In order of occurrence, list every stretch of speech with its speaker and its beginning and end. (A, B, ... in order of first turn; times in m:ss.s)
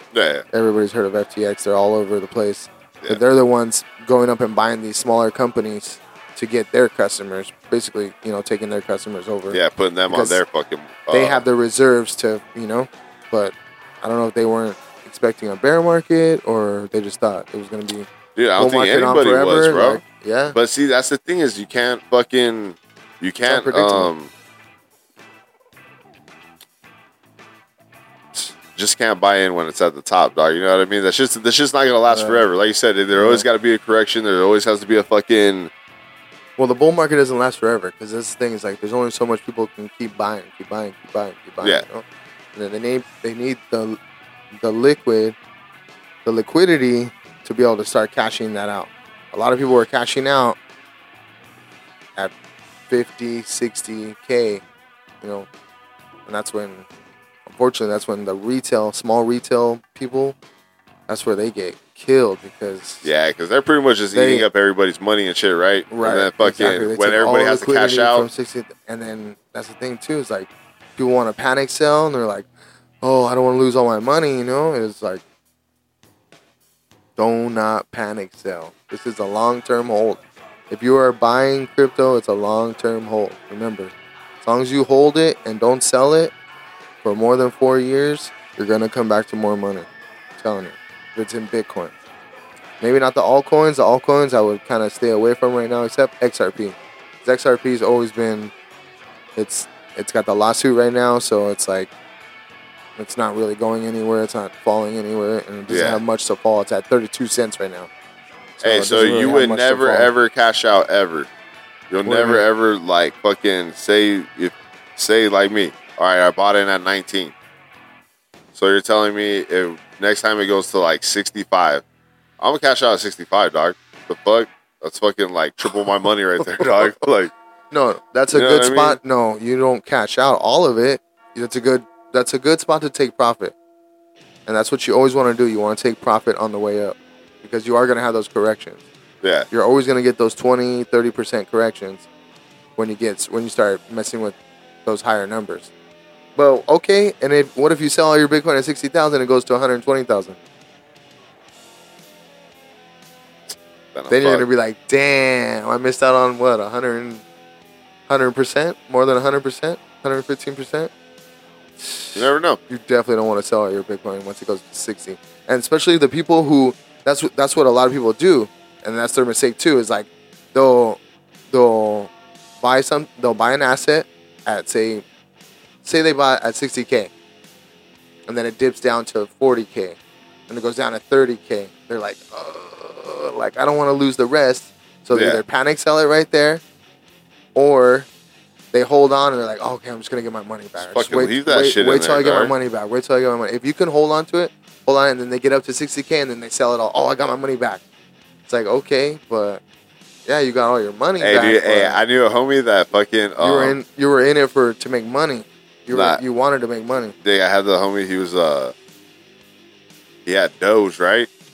0:00.1-0:00.5 A
0:00.5-0:09.6 B
0:09.5-0:11.4 A
0:10.1-0:10.4 B
0:11.1-0:20.6 B
0:18.4-0:20.0 A
0:20.5-0:24.3 A
0:23.5-0:24.1 B
0:28.3-0:35.7 A
0:32.1-0:32.4 B
0:33.1-0:33.5 B
0:36.6-0:44.0 B
0:44.6-0:45.4 B
0:46.2-0:50.6 B
0:52.9-0:54.6 B
0:55.2-0:55.5 B
0:56.3-0:56.9 B
0:57.5-1:00.4 B
1:01.1-1:03.1 B
1:03.0-1:08.3 A
1:04.2-1:04.5 B
1:05.9-1:12.5 B
1:13.0-1:15.2 B
1:17.2-1:26.3 B
1:27.0-1:31.9 B
1:32.8-1:38.5 B
1:39.4-1:41.9 B
1:43.0-1:47.9 B
1:45.7-1:46.0 A
1:48.6-1:50.1 B
1:48.6-1:51.3 A
1:51.9-1:57.3 A
1:52.1-1:52.5 B
1:58.6-2:01.8 A
2:02.4-2:07.3 A
2:07.7-2:13.6 B
2:08.3-2:09.0 A
2:14.5-2:18.8 B
2:19.2-2:19.5 A
2:19.5-2:22.1 B
2:22.8-2:25.7 B
2:26.4-2:30.4 B
2:33.9-2:34.4 A
2:34.1-2:37.2 B
2:38.1-2:40.9 B
2:41.8-2:51.0 B
2:42.2-2:42.6 A
2:51.5-2:55.0 B
2:55.8-2:57.1 B
2:58.3-3:00.0 B
3:00.5-3:06.6 B
3:05.1-3:05.4 A
3:07.6-3:08.1 B
3:08.7-3:17.8 B
3:10.8-3:12.5 A
3:18.5-3:19.6 B
3:20.3-3:22.0 B
3:21.2-3:23.8 A
3:23.4-3:27.2 B
3:25.9-3:26.2 A
3:27.2-3:28.7 A
3:30.3-3:31.3 A